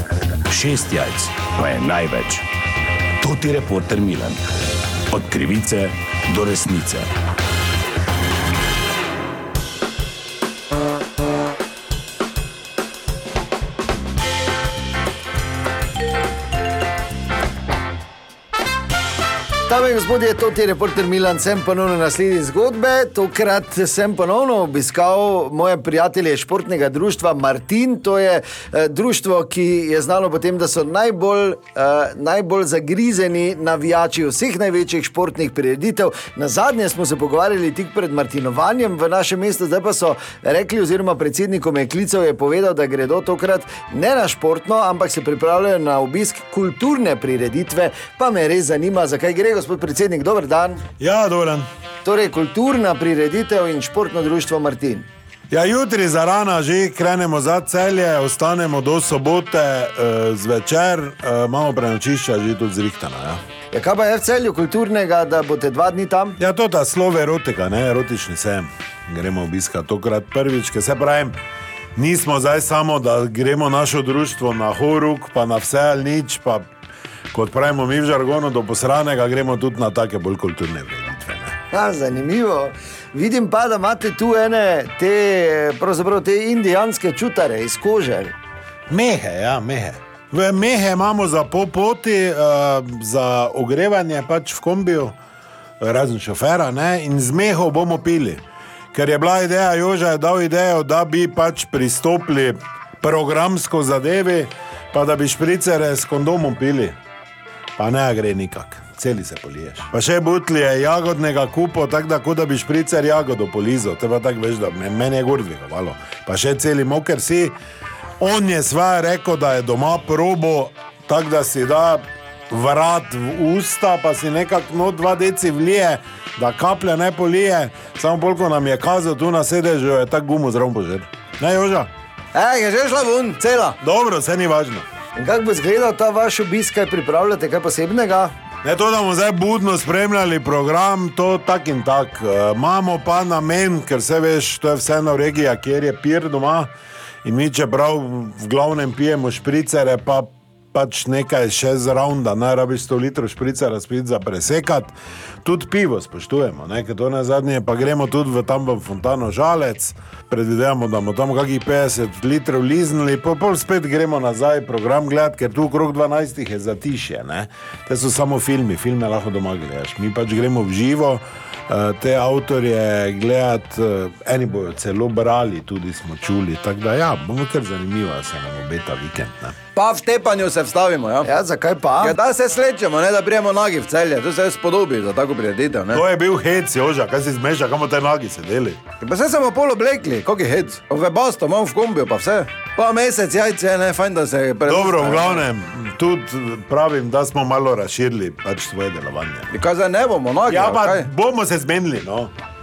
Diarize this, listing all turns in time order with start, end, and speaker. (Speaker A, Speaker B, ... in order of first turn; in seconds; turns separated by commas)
Speaker A: 0.5-2.5, Speaker A: 3.2-4.4, Speaker A: 5.1-7.1, Speaker B: 19.7-50.8, Speaker C: 51.0-51.6, Speaker B: 52.0-55.1, Speaker C: 55.5-63.4, Speaker B: 63.7-66.4, Speaker C: 66.4-71.3, Speaker C: 72.0-76.7, Speaker C: 77.3-81.5, Speaker B: 81.7-88.3, Speaker C: 88.9-95.2, Speaker C: 95.8-98.4, Speaker C: 98.9-107.0, Speaker C: 107.8-117.5, Speaker C: 118.2-131.9, Speaker D: 132.3-133.8, Speaker C: 133.8-134.8, Speaker B: 135.2-138.3, Speaker C: 138.6-146.7, Speaker C: 147.2-179.6, Speaker D: 179.8-181.3, Speaker B: 181.2-182.2, Speaker D: 182.0-186.0, Speaker C: 185.9-188.8, Speaker D: 189.0-195.4, Speaker C: 194.7-199.5, Speaker D: 199.5-201.1, Speaker C: 200.4-202.3